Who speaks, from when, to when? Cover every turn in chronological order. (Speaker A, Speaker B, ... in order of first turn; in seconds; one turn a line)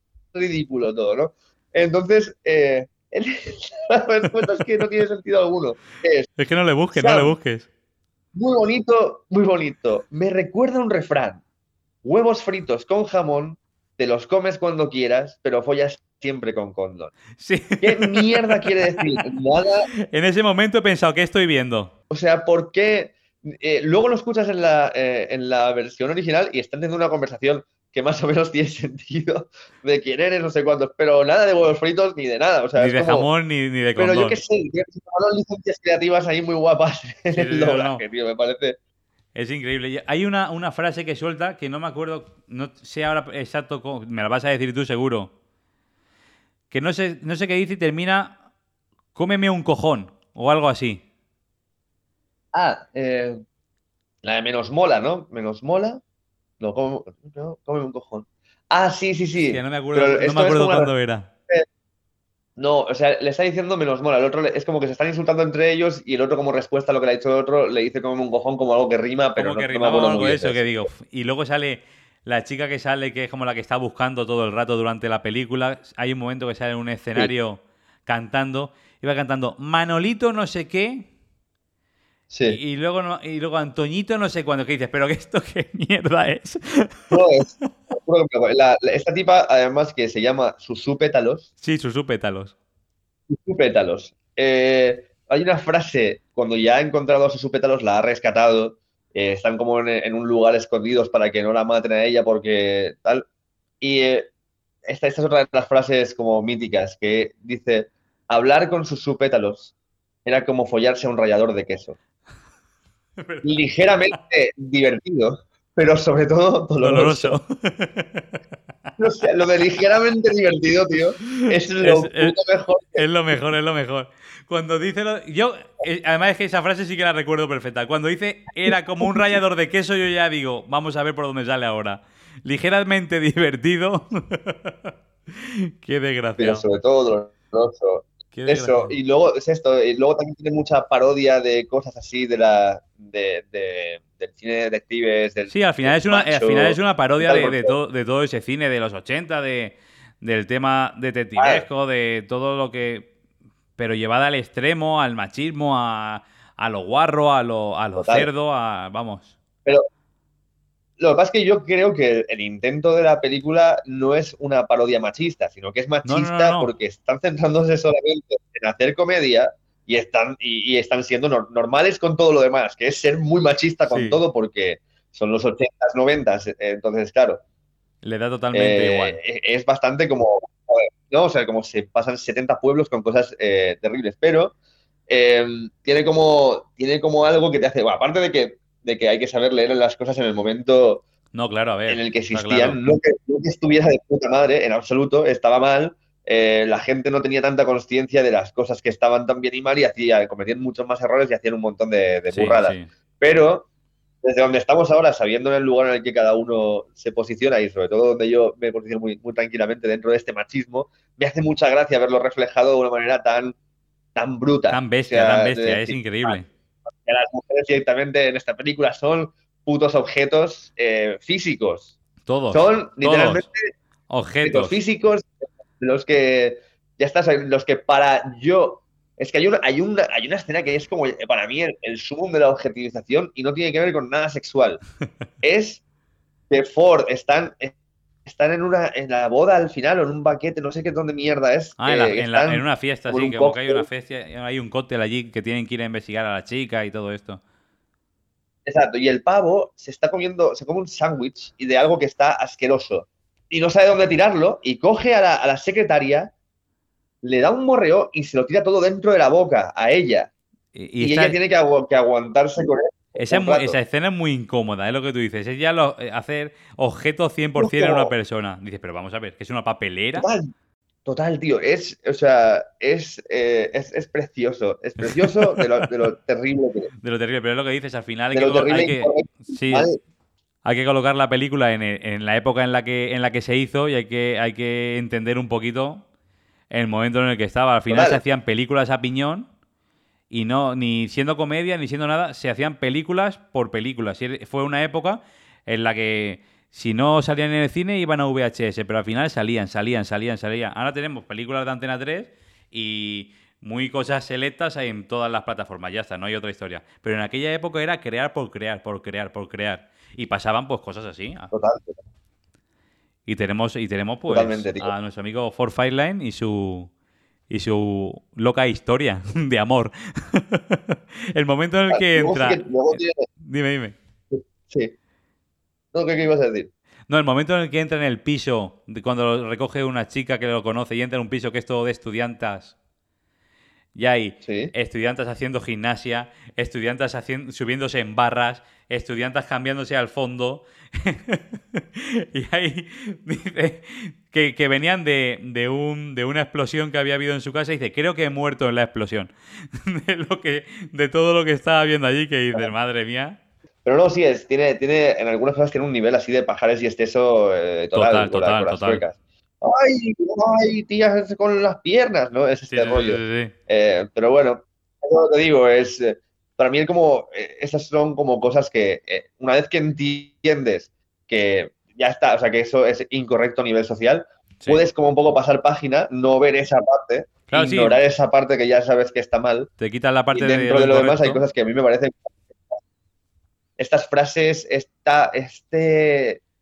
Speaker A: 0.3-6.3
Speaker B: 6.4-7.7
Speaker A: 6.9-7.3
Speaker A: 8.3-11.4
Speaker A: 12.0-17.1
Speaker B: 17.4-19.3
Speaker A: 17.8-19.9
Speaker B: 20.0-21.9
Speaker A: 22.1-33.3
Speaker B: 32.8-34.4
Speaker A: 34.0-38.8
Speaker B: 37.3-38.0
Speaker B: 39.3-45.3
Speaker B: 46.7-48.4
Speaker B: 49.1-51.0
Speaker A: 52.5-53.4
Speaker A: 54.2-56.0
Speaker A: 56.6-60.9
Speaker B: 59.4-61.3
Speaker A: 62.6-70.8
Speaker B: 69.3-81.1
Speaker A: 82.3-82.6
Speaker B: 82.5-87.2
Speaker A: 87.1-91.5
Speaker B: 91.6-92.5
Speaker A: 93.3-103.2
Speaker A: 103.8-104.3
Speaker A: 104.8-109.7
Speaker A: 110.2-112.0
Speaker B: 113.2-113.6
Speaker A: 113.4-117.4
Speaker B: 116.8-118.3
Speaker A: 119.0-123.1
Speaker B: 121.2-122.3
Speaker B: 123.0-136.6
Speaker A: 129.0-129.3
Speaker A: 136.4-147.8
Speaker B: 138.3-138.9
Speaker B: 145.5-153.1
Speaker A: 151.4-151.6
Speaker B: 153.8-159.3
Speaker A: 157.9-158.3
Speaker A: 161.0-177.4
Speaker B: 166.0-166.7
Speaker B: 173.8-174.2
Speaker B: 178.0-179.2
Speaker A: 178.5-184.5
Speaker A: 185.1-191.0
Speaker B: 191.3-192.8
Speaker A: 191.9-203.7
Speaker B: 202.3-202.9
Speaker A: 204.2-213.6
Speaker A: 214.1-216.4
Speaker B: 214.7-216.5
Speaker A: 217.0-221.9
Speaker B: 222.2-223.4
Speaker A: 222.5-223.7
Speaker B: 224.1-224.8
Speaker A: 224.4-225.3
Speaker A: 225.8-234.8
Speaker A: 235.4-235.8
Speaker A: 236.5-237.7
Speaker A: 238.2-243.9
Speaker B: 241.8-247.4
Speaker A: 248.7-256.3
Speaker A: 257.2-260.3
Speaker B: 260.7-261.4
Speaker A: 261.0-263.8
Speaker B: 263.2-270.3
Speaker A: 267.6-268.1
Speaker A: 270.2-270.5
Speaker A: 271.1-276.9
Speaker B: 275.0-275.9
Speaker B: 277.0-279.9
Speaker A: 278.3-280.0
Speaker B: 280.6-286.0
Speaker B: 286.7-289.5
Speaker A: 287.9-288.2
Speaker B: 290.3-311.5
Speaker A: 311.5-311.9
Speaker B: 313.2-316.9
Speaker A: 314.3-314.9
Speaker B: 317.5-322.7
Speaker A: 321.9-323.3
Speaker B: 323.4-323.9
Speaker A: 324.3-324.9
Speaker A: 325.9-326.7
Speaker B: 327.1-332.7
Speaker B: 333.9-353.4
Speaker A: 334.4-334.7
Speaker A: 353.8-379.7
Speaker B: 357.9-359.0
Speaker B: 362.7-363.5
Speaker B: 377.5-378.0
Speaker B: 379.8-381.4
Speaker A: 380.3-382.7
Speaker A: 383.8-386.4